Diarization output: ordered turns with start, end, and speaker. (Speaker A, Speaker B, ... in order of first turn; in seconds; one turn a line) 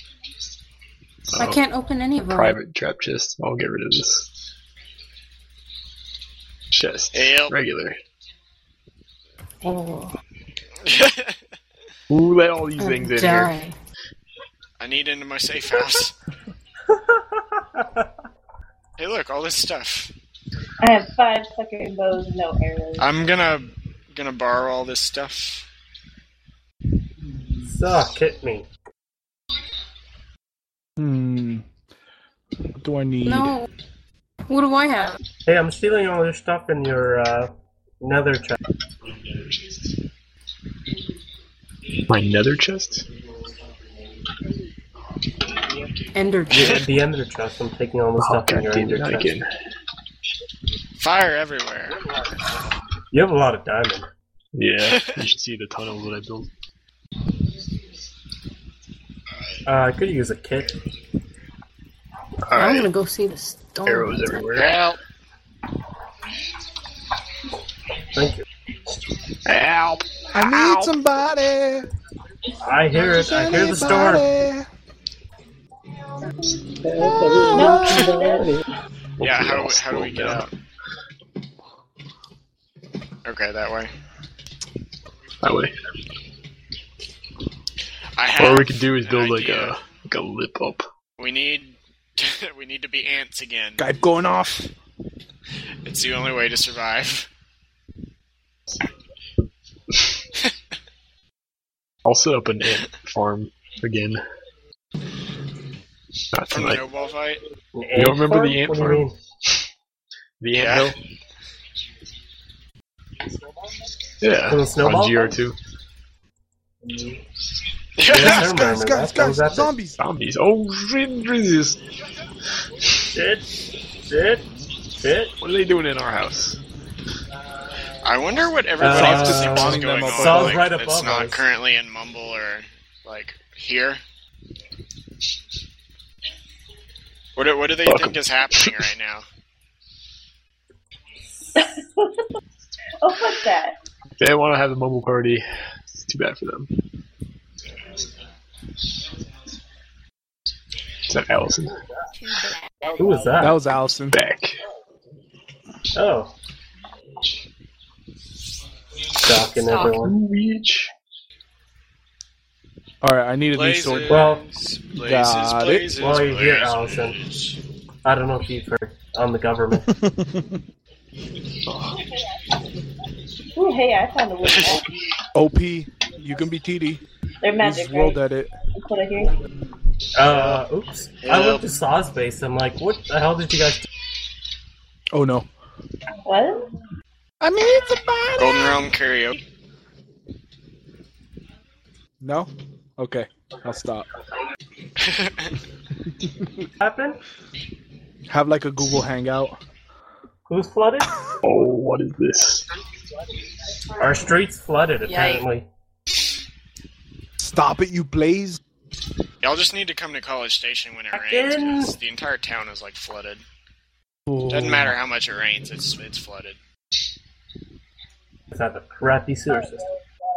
Speaker A: 1.3-4.3
Speaker B: 1.4-2.6
Speaker A: 6.7-8.0
Speaker C: 7.1-7.5
Speaker B: 9.6-10.1
Speaker C: 10.8-11.4
Speaker A: 12.1-13.6
Speaker B: 12.8-13.7
Speaker C: 14.8-16.1
Speaker D: 16.9-18.1
Speaker C: 19.0-20.1
Speaker E: 20.8-23.1
Speaker C: 23.0-25.6
Speaker D: 27.6-28.7
Speaker F: 31.0-31.6
Speaker F: 32.8-33.5
Speaker B: 33.2-33.7
Speaker B: 34.5-35.2
Speaker D: 35.5-38.6
Speaker A: 42.1-43.0
Speaker B: 46.1-46.9
Speaker D: 46.5-49.3
Speaker A: 48.2-49.5
Speaker C: 51.0-52.0
Speaker D: 53.1-54.0
Speaker A: 54.5-56.5
Speaker C: 54.8-55.2
Speaker D: 59.6-60.7
Speaker A: 62.5-62.9
Speaker B: 62.5-64.6
Speaker A: 63.8-64.9
Speaker C: 64.5-65.0
Speaker D: 68.1-68.4
Speaker A: 69.5-70.9
Speaker F: 70.3-71.9
Speaker D: 72.6-74.3
Speaker F: 72.9-74.7
Speaker F: 77.5-78.1
Speaker E: 77.5-78.5
Speaker A: 79.2-80.5
Speaker C: 79.2-80.5
Speaker C: 83.2-83.9
Speaker A: 85.4-85.7
Speaker C: 88.2-89.7
Speaker A: 88.3-90.8
Speaker C: 91.2-93.8
Speaker F: 93.8-94.7
Speaker C: 95.8-97.3
Speaker A: 102.0-104.2
Speaker A: 106.3-106.8
Speaker C: 106.5-107.4
Speaker D: 107.7-109.2
Speaker A: 107.9-109.1
Speaker A: 110.4-111.0
Speaker C: 110.6-111.0
Speaker A: 114.2-115.6
Speaker D: 114.5-115.3
Speaker D: 116.8-117.2
Speaker C: 118.0-118.5
Speaker D: 118.0-119.7
Speaker F: 118.1-120.0
Speaker A: 120.0-121.8
Speaker D: 123.1-123.4
Speaker D: 124.1-124.5
Speaker D: 125.0-125.3
Speaker A: 125.4-126.6
Speaker C: 128.0-134.0
Speaker D: 128.8-131.5
Speaker F: 128.8-130.6
Speaker C: 137.3-139.2
Speaker A: 137.8-138.8
Speaker E: 141.6-142.2
Speaker E: 143.0-143.7
Speaker A: 144.2-146.7
Speaker A: 151.1-151.7
Speaker D: 153.0-153.6
Speaker F: 153.4-154.2
Speaker A: 154.1-154.6
Speaker D: 155.9-156.3
Speaker D: 159.2-160.2
Speaker A: 159.7-160.9
Speaker F: 163.0-164.2
Speaker C: 163.5-167.6
Speaker D: 164.1-164.4
Speaker F: 165.0-165.9
Speaker D: 166.0-167.2
Speaker D: 168.0-169.9
Speaker F: 169.9-170.4
Speaker A: 171.7-171.9
Speaker E: 173.5-174.9
Speaker C: 174.4-174.7
Speaker F: 175.3-177.0
Speaker E: 177.4-178.2
Speaker F: 177.6-178.5
Speaker E: 178.7-179.3
Speaker D: 180.2-183.8
Speaker C: 180.3-180.6
Speaker C: 181.2-181.6
Speaker F: 185.1-185.5
Speaker E: 186.2-186.6
Speaker F: 187.4-188.8
Speaker C: 188.4-189.4
Speaker F: 192.2-194.1
Speaker C: 195.0-195.6
Speaker F: 196.2-196.7
Speaker D: 196.8-197.2
Speaker F: 198.3-199.6
Speaker D: 200.5-201.1
Speaker A: 201.4-202.7
Speaker D: 204.0-205.7
Speaker F: 207.4-208.6
Speaker C: 209.4-213.4
Speaker D: 211.1-211.9
Speaker C: 214.5-216.6
Speaker D: 218.5-219.9